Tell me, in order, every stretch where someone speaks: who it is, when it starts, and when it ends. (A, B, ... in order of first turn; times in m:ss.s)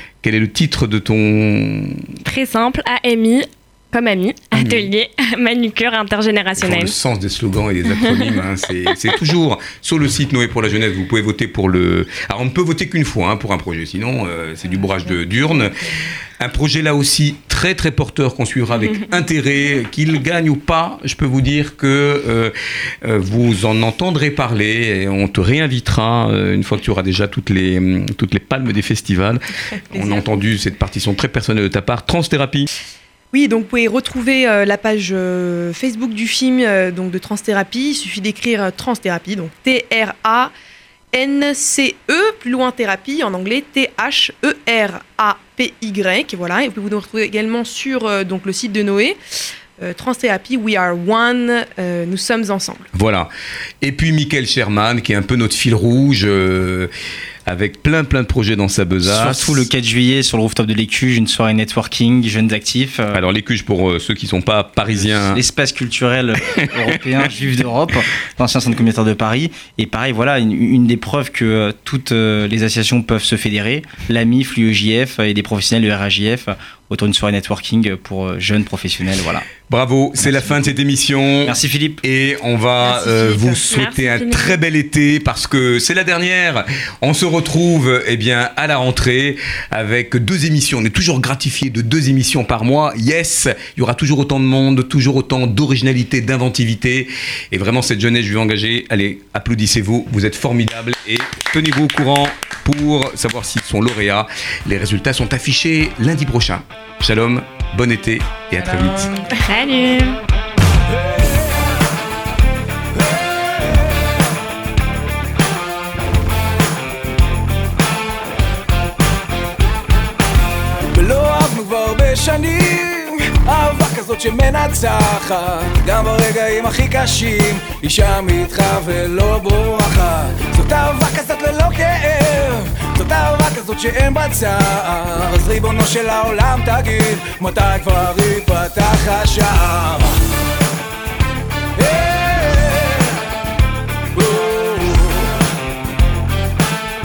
0:00.2-0:02.1 A
0:02.2-0:06.9 B
0:04.5-0:04.9 A
0:06.6-0:32.7 A
0:08.0-0:08.3 B
0:29.9-0:30.2 C
0:33.3-0:40.5 C
0:41.1-0:49.2 C
0:49.8-0:52.9 C
0:52.9-0:53.3 A
0:53.8-0:56.9 A
0:57.4-0:59.7 A
0:59.0-1:03.2 D
1:03.1-1:05.4 A
1:05.3-1:19.5 D
1:19.6-1:49.1 A
1:20.2-1:20.6 D
1:21.4-1:22.0 D
1:22.8-1:23.6 C
1:23.7-1:24.6 B
1:48.7-1:50.2 B
1:51.0-1:51.7 E
1:53.1-1:53.8 E
2:00.8-2:20.2 E
2:21.8-2:23.2 E
2:24.2-2:25.3 E